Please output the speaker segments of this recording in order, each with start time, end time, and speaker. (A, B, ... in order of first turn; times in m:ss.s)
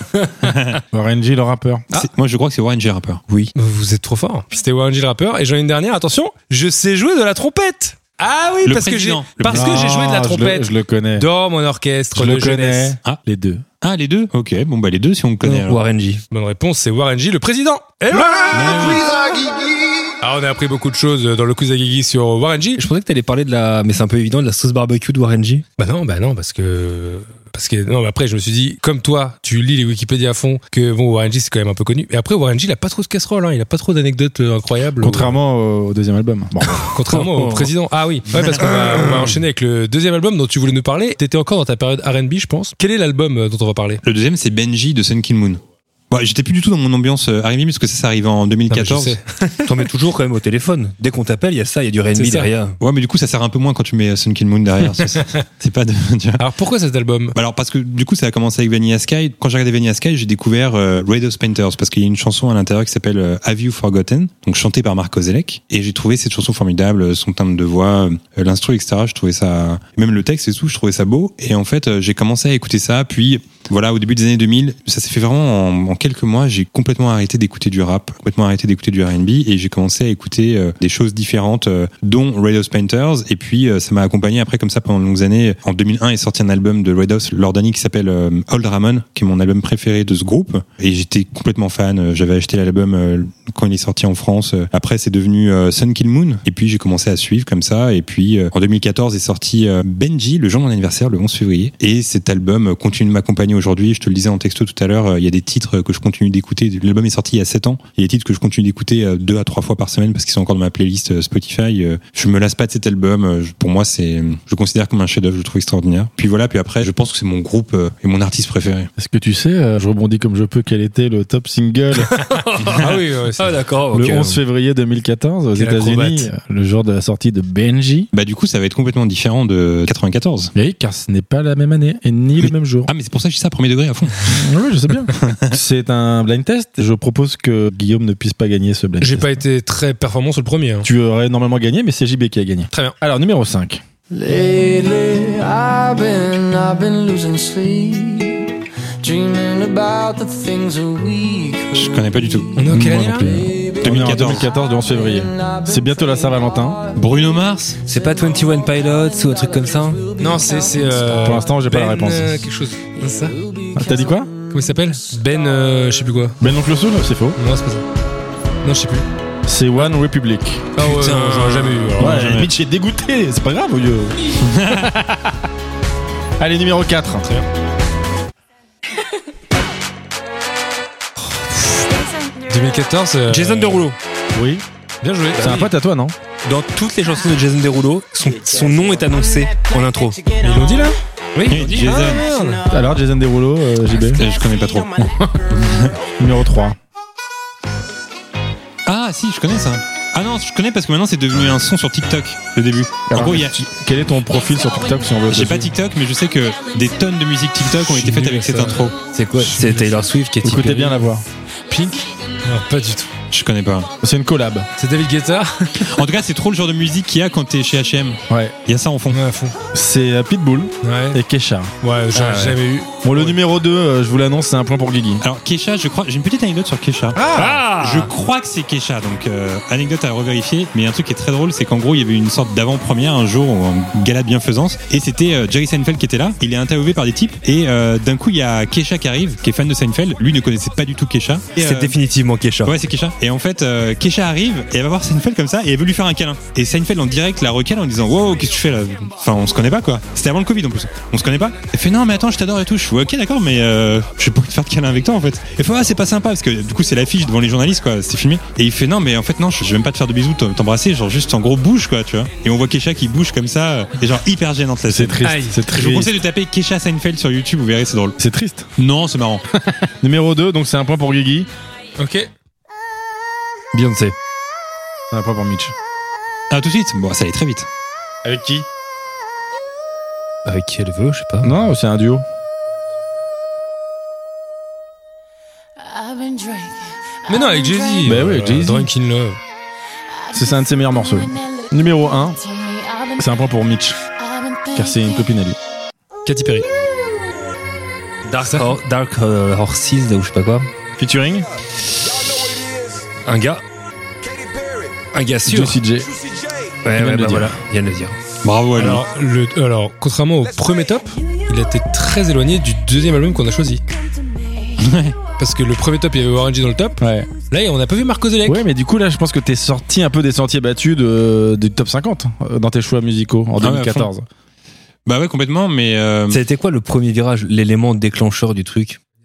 0:00.4-0:00.8 A
0:00.9-0:01.9 B
0:01.9-0:03.2 A
0:03.6-0:13.0 C
0:08.6-0:09.9 A
0:09.5-0:11.3 B
0:12.2-0:13.6 B
0:13.8-0:15.8 A
0:15.4-0:16.2 D
0:16.3-0:18.8 C
0:18.1-0:20.2 E
0:18.5-0:19.0 A
0:20.2-0:22.8 C
0:22.8-0:25.6 D
0:25.8-0:35.4 C
0:35.0-0:36.9 B
0:36.9-0:44.0 C
0:37.1-0:37.7 D
0:44.0-0:49.2 A
0:48.7-0:49.7 C
0:49.6-0:52.8 D
0:52.2-0:52.5 C
0:52.8-0:56.4 A
0:56.4-0:57.4 C
0:57.4-1:58.9 A
1:59.0-2:02.2 B
2:02.2-2:04.4 D
2:02.8-2:03.6 C
2:03.9-2:08.1 B
2:05.6-2:06.3 C
2:08.1-2:10.5 A
2:10.6-2:12.9 B
2:12.4-2:14.5 A
2:14.3-2:19.4 B
2:15.1-2:15.6 A
2:19.0-2:20.9 C
2:20.8-2:23.8 B
2:24.1-2:28.5 E
2:29.0-2:32.0 E
2:31.7-2:32.5 A
2:32.6-2:33.4 C
2:32.7-2:36.8 B
2:33.2-2:37.0 E
2:33.8-2:34.5 A
2:37.0-2:37.8 A
2:37.8-2:40.1 D
2:40.2-2:40.9 E
2:40.2-2:43.4 C
2:41.2-2:42.5 B
2:43.3-2:44.8 E
2:43.7-2:44.3 B
2:44.5-2:46.4 C
2:46.4-2:47.4 B
2:47.4-2:47.8 C
2:48.6-2:49.0 C
2:49.5-2:50.7 B
2:50.8-2:52.4 C
2:50.8-2:52.1 D
2:52.0-2:54.3 B
2:52.1-2:52.5 A
2:54.4-2:55.0 A
2:56.4-2:57.3 B
3:01.3-3:03.9 C
3:03.3-3:04.0 D
3:04.3-3:04.6 B
3:05.0-3:05.7 C
3:05.4-3:05.7 D
3:05.4-3:06.2 B
3:06.4-3:10.3 D
3:10.4-3:11.0 C
3:11.4-3:12.1 D
3:11.5-3:12.2 A
3:11.8-3:12.7 C
3:12.7-3:14.2 B
3:14.1-3:16.0 A
3:16.2-3:16.8 B
3:18.9-3:23.7 A
3:23.1-3:25.7 B
3:25.3-3:29.0 A
3:27.8-3:30.0 C
3:29.1-3:31.0 D
3:30.4-3:31.2 B
3:31.7-3:33.1 C
3:33.3-3:33.9 A
3:34.0-3:34.7 B
3:34.8-3:36.0 C
3:35.8-3:39.2 A
3:38.3-3:38.6 B
3:39.1-3:39.6 C
3:39.7-3:41.7 B
3:40.8-3:41.2 C
3:41.8-3:43.4 C
3:42.1-3:42.6 D
3:43.0-3:45.2 B
3:45.2-3:47.2 A
3:47.2-3:47.6 B
3:47.3-3:48.1 D
3:47.7-4:02.0 A
4:01.6-4:02.8 D
4:02.6-4:28.2 A
4:24.9-4:26.1 B
4:25.2-4:25.7 C
4:28.2-4:28.7 B
4:28.8-4:29.4 A
4:29.6-4:31.5 B
4:32.0-4:32.3 C
4:33.7-4:34.2 D
4:35.1-4:35.7 B
4:36.5-4:37.7 A
4:38.2-4:38.7 B
4:40.4-4:41.6 D
4:41.4-4:42.2 B
4:47.3-4:49.4 C
4:48.0-4:48.9 B
4:50.3-4:52.4 B
4:53.2-4:54.0 B
4:54.7-4:55.6 B
4:56.3-4:56.7 C
4:58.3-5:00.7 D
4:58.4-4:58.8 C
5:01.0-5:01.5 B
5:03.3-5:03.6 D
5:05.1-5:05.8 D
5:05.5-5:06.1 B
5:06.8-5:08.2 D
5:06.9-5:07.6 B
5:08.4-5:09.0 A
5:08.8-5:13.8 C
5:14.8-5:15.2 A
5:15.4-5:18.6 C
5:17.0-5:17.3 B
5:18.4-5:24.3 B
5:23.6-5:24.1 A
5:25.1-5:26.4 A
5:26.3-5:29.0 D